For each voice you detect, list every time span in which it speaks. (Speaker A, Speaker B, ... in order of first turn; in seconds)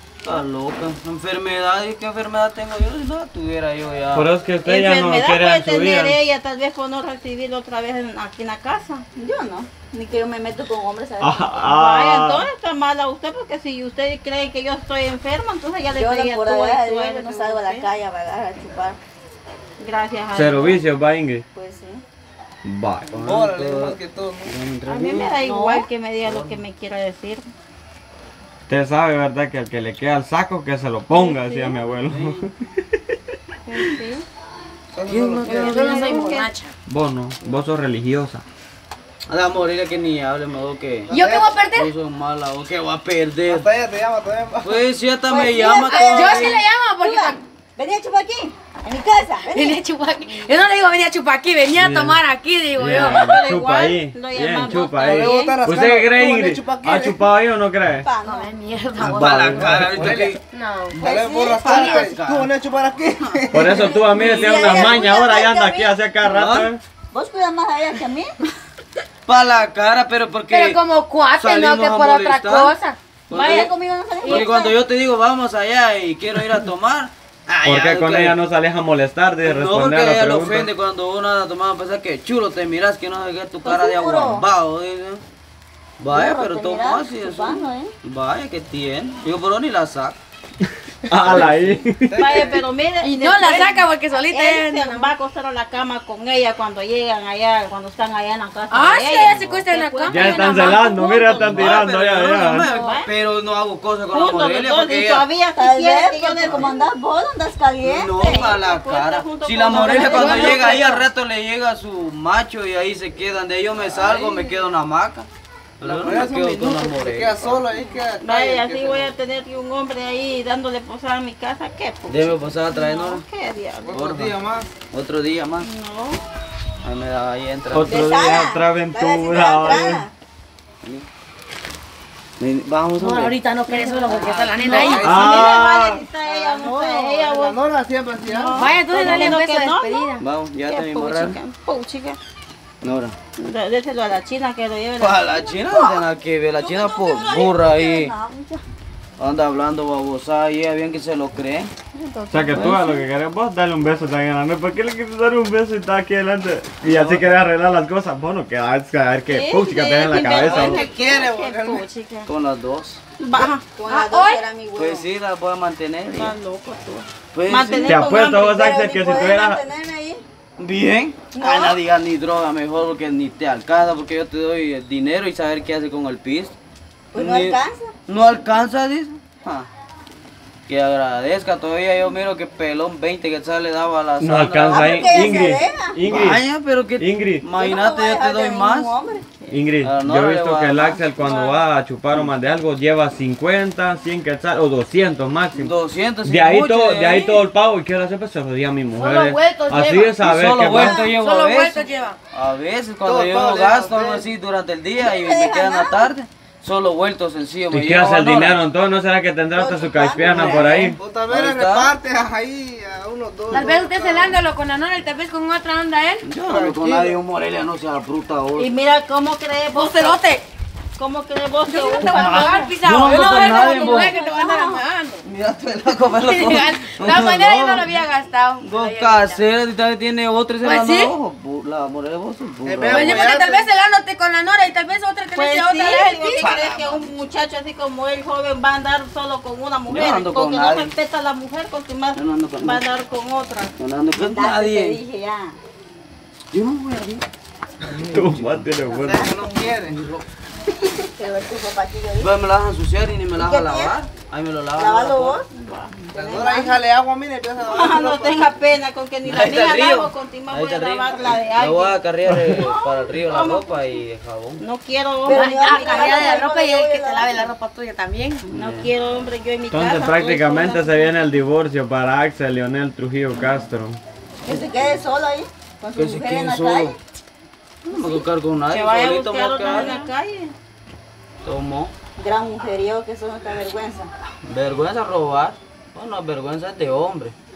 Speaker A: 0.2-4.3, 23.1-25.4, 26.2-26.6, 32.1-32.4, 35.1-35.6, 39.3-41.1, 41.7-43.7, 44.6-46.6, 59.0-60.4, 61.6-62.5, 63.2-64.9, 66.2-66.7, 69.3-70.8, 71.3-72.8, 73.3-78.4, 79.4-85.2, 86.0-90.2, 91.3-91.8, 99.3-99.7, 101.5-105.2, 107.8-115.3, 115.8-117.7, 122.1-123.2, 123.9-124.4, 124.9-125.7, 126.8-127.9, 132.4-133.3, 139.0-139.4, 140.2-141.4, 142.8-143.2, 145.0-148.1, 149.2-151.7, 156.8-157.2, 162.3-163.0, 164.8-166.3, 167.3-168.0, 170.6-176.6, 177.2-179.7, 180.7-185.3, 186.1-188.9, 189.8-191.0, 195.6-197.4, 200.2-208.6, 210.2-211.9, 216.2-218.7, 222.0-224.1, 225.3-227.9, 228.6-233.3, 236.4-237.1, 239.9-240.9, 242.2-242.9, 243.8-245.0, 246.5-247.2, 248.1-249.0, 249.9-250.2, 252.2-255.4, 259.2-264.6, 268.5-268.9, 274.5-275.0, 275.9-276.9, 277.9-279.9, 281.4-281.9, 284.4-287.4
Speaker B: 4.1-6.2, 11.2-12.5, 20.3-21.4, 22.6-23.1, 28.7-33.3, 36.9-38.4, 51.8-52.2, 52.8-58.1, 59.0-60.1, 63.5-66.8, 77.7-80.7, 91.1-92.5, 100.1-102.7, 127.7-130.0, 135.0-136.0, 152.3-160.8, 167.8-169.6, 184.2-186.4, 187.0-187.4, 189.5-201.0, 207.7-211.0, 248.1-249.3, 262.3-262.6, 269.7-274.0
Speaker C: 4.7-9.0, 11.6-17.9, 19.8-20.8, 24.9-27.5, 31.1-31.8, 33.7-34.2, 35.4-36.5, 52.9-55.6, 92.2-101.8, 102.6-103.1, 104.1-106.8, 108.2-111.1, 118.2-124.0, 125.6-126.2, 133.7-137.6, 138.2-142.2, 143.4-145.5, 151.9-153.0, 159.3-162.3, 163.2-163.6, 166.1-168.8, 191.2-191.6, 218.6-220.2, 221.0-224.2, 235.3-243.8, 255.5-256.1, 257.6-262.0, 262.5-264.0, 264.6-266.2, 268.5-271.1, 278.7-280.5
Speaker D: 9.2-11.7, 15.9-19.0, 21.5-22.0, 45.3-49.8, 58.0-58.5, 61.0-62.1, 64.2-65.9, 67.1-68.4, 73.3-74.5, 83.6-84.5, 86.1-87.9, 105.4-108.5, 109.8-110.3, 127.9-130.1, 145.6-146.1, 146.6-148.6, 163.7-165.1, 168.5-170.2, 171.3-171.8, 177.1-177.9, 184.7-186.0, 187.6-189.2, 205.0-206.1, 209.5-210.9, 224.1-224.8, 244.2-245.6, 251.1-252.3, 253.4-253.9, 254.8-255.4, 256.1-256.8, 265.2-267.5, 274.4-276.9, 277.9-278.2, 282.2-284.1
Speaker E: 23.1-24.5, 34.9-35.9, 41.1-41.7, 43.5-44.8, 55.0-57.2, 59.9-60.4, 60.9-64.0, 92.1-92.6, 113.9-114.7, 115.8-119.1, 123.8-124.7, 134.3-138.7, 160.3-161.8, 203.0-204.3, 210.3-214.4, 216.4-217.2, 225.4-226.1, 232.7-233.7, 247.9-248.2, 248.9-250.0, 256.1-258.7
Speaker F: 35.3-36.7, 41.1-41.9, 45.8-47.4, 49.4-53.4, 58.2-59.9, 60.5-61.0, 70.5-73.0, 74.2-74.8, 93.0-95.1, 98.7-100.8, 110.0-110.7, 133.0-135.1, 138.5-140.2, 163.8-164.4, 198.9-200.2, 200.7-202.2, 213.5-216.3, 219.7-220.4, 221.7-225.2, 226.1-229.4, 230.6-231.1, 232.9-236.7, 265.3-268.4